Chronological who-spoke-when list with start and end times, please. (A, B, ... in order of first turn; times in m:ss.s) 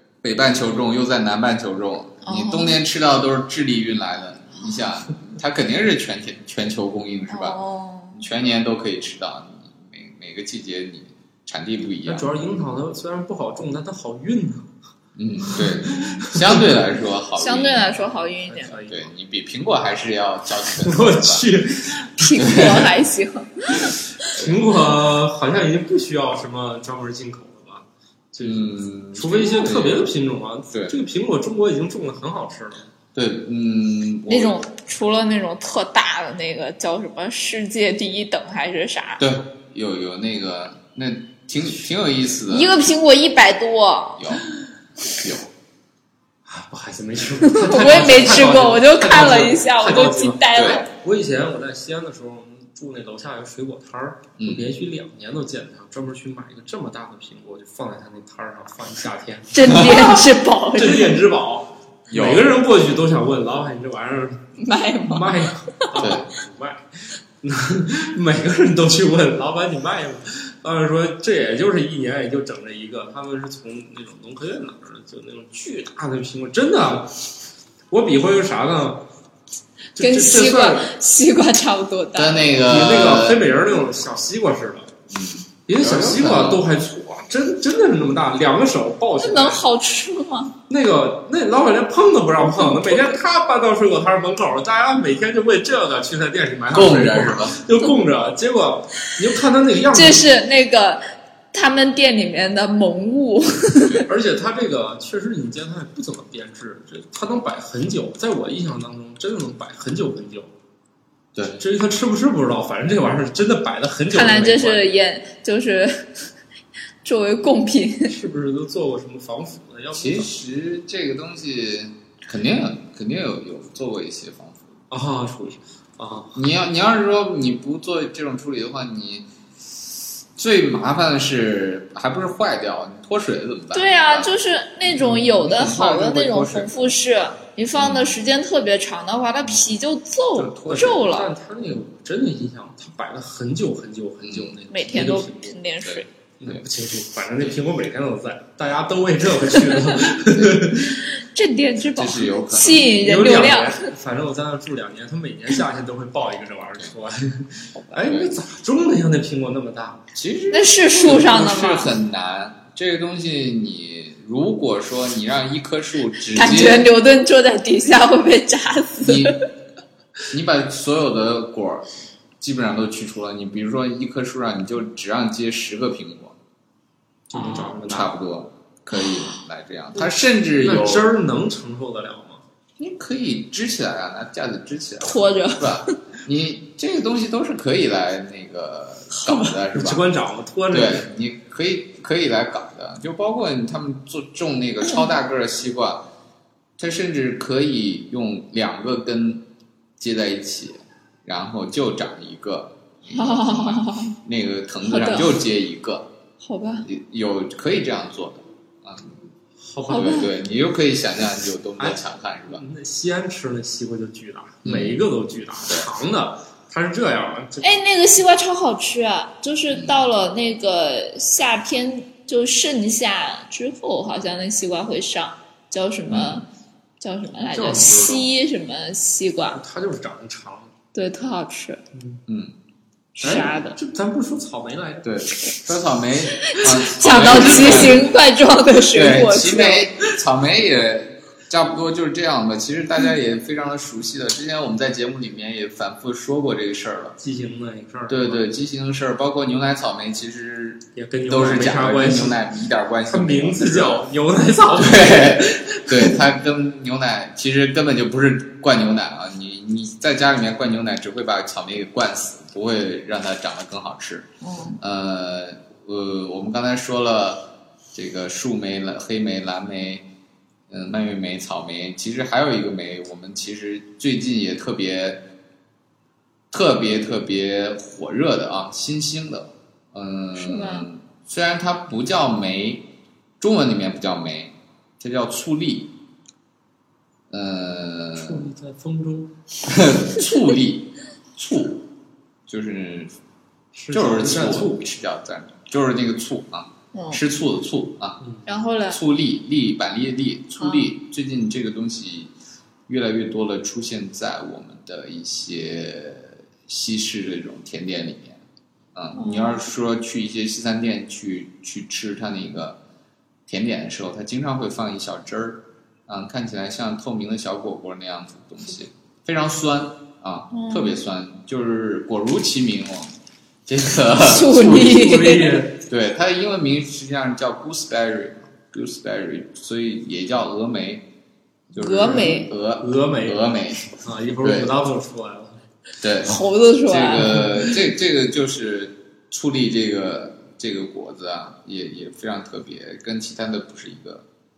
0:00.2-0:07.6 A
0:02.2-0:02.8 B
0:07.3-0:08.2 B
0:08.1-0:12.3 A
0:12.0-0:14.7 C
0:15.2-0:18.1 A
0:15.5-0:16.7 C
0:17.4-0:18.8 B
0:18.4-0:19.1 C
0:18.9-0:21.4 A
0:20.8-0:22.8 C
0:22.2-0:24.0 B
0:22.4-0:22.9 A
0:23.8-0:24.6 A
0:24.2-0:32.9 C
0:28.4-0:30.1 A
0:33.1-0:34.6 A
0:34.3-0:39.2 B
0:39.2-0:42.7 A
0:42.5-0:44.2 B
0:44.2-0:44.4 A
0:45.1-0:45.5 A
0:46.4-1:04.5 C
0:47.4-0:50.9 B
0:50.5-0:50.8 A
0:54.4-0:54.7 A
0:59.5-1:01.2 B
1:02.1-1:02.5 A
1:04.6-1:05.3 B
1:05.0-1:06.8 C
1:06.0-1:06.2 A
1:07.4-1:17.2 C
1:17.9-1:19.0 C
1:20.0-1:20.9 C
1:20.0-1:22.5 B
1:22.1-1:23.4 A
1:22.6-1:24.9 C
1:25.1-1:26.6 A
1:25.6-1:29.6 C
1:29.2-1:30.5 B
1:30.7-1:40.2 C
1:32.4-1:33.1 B
1:36.7-1:37.6 A
1:39.9-1:44.0 B
1:44.1-1:50.5 C
1:51.3-1:51.6 A
1:51.6-1:54.9 C
1:54.1-1:56.3 B
1:57.0-1:58.1 B
1:58.1-2:00.3 C
1:59.9-2:04.8 A
2:04.9-2:06.4 C
2:06.3-2:17.0 A
2:13.7-2:21.3 B
2:17.7-2:18.1 A
2:20.4-2:25.6 C
2:20.7-2:21.0 A
2:24.2-2:24.6 A
2:24.7-2:26.1 B
2:25.8-2:26.6 A
2:26.4-2:31.0 C
2:29.7-2:30.1 B
2:30.7-2:33.9 B
2:31.8-2:33.0 A
2:32.9-2:40.1 C
2:37.9-2:38.4 A
2:40.1-2:46.9 A
2:40.5-2:42.0 B
2:46.2-2:49.4 B
2:49.0-2:49.4 A
2:50.3-2:51.9 A
2:52.4-2:56.4 A
2:57.3-2:58.1 C
2:57.3-2:57.7 B
2:57.8-3:01.1 A
2:59.0-2:59.3 B
2:59.9-3:02.4 C
3:02.8-3:10.0 A
3:05.0-3:06.0 B
3:09.1-3:09.5 B
3:09.7-3:11.1 C
3:10.7-3:16.1 A
3:16.8-3:19.4 A
3:20.0-3:26.1 A
3:23.1-3:24.2 B
3:24.8-3:25.4 B
3:26.4-3:26.9 B
3:26.8-3:29.2 A
3:29.6-3:30.3 C
3:29.9-3:32.6 A
3:29.9-3:30.3 B
3:31.8-3:37.7 C
3:34.6-3:35.0 A
3:37.6-3:46.5 B
3:39.7-3:40.0 A
3:46.1-3:46.4 A
3:47.0-3:49.6 B
3:47.4-3:48.3 C
3:49.5-3:50.7 C
3:50.9-3:51.8 B
3:51.9-3:52.2 C
3:52.3-3:52.5 A
3:53.2-3:53.8 B
3:53.2-3:55.1 C
3:55.0-3:58.0 A
3:56.5-3:59.9 B
3:57.0-3:58.0 C
3:58.9-4:07.2 A
4:07.2-4:08.4 C
4:08.1-4:14.1 A
4:10.9-4:12.4 C
4:13.0-4:16.1 C
4:14.8-4:30.1 A
4:24.4-4:24.8 B
4:30.7-4:35.2 A
4:36.5-4:42.9 A
4:40.3-4:40.9 B
4:43.4-4:45.9 A
4:47.3-4:48.5 A
4:48.2-4:49.4 C
4:49.6-4:51.9 A
4:52.5-4:53.2 A
4:53.7-4:54.9 C
4:53.9-4:58.2 A
4:56.9-4:57.2 B
4:58.4-4:59.0 B
4:58.9-5:02.3 A
5:00.6-5:00.9 B
5:02.9-5:08.4 A
5:08.9-5:12.8 A
5:09.1-5:09.7 B
5:13.5-5:25.2 A
5:20.5-5:21.0 B
5:24.2-5:25.7 B
5:24.6-5:25.8 C
5:25.9-5:31.1 A
5:31.7-5:33.8 A
5:31.7-5:32.5 B
5:32.0-5:35.6 C
5:34.4-5:34.7 A
5:36.0-5:44.2 A
5:36.2-5:37.7 B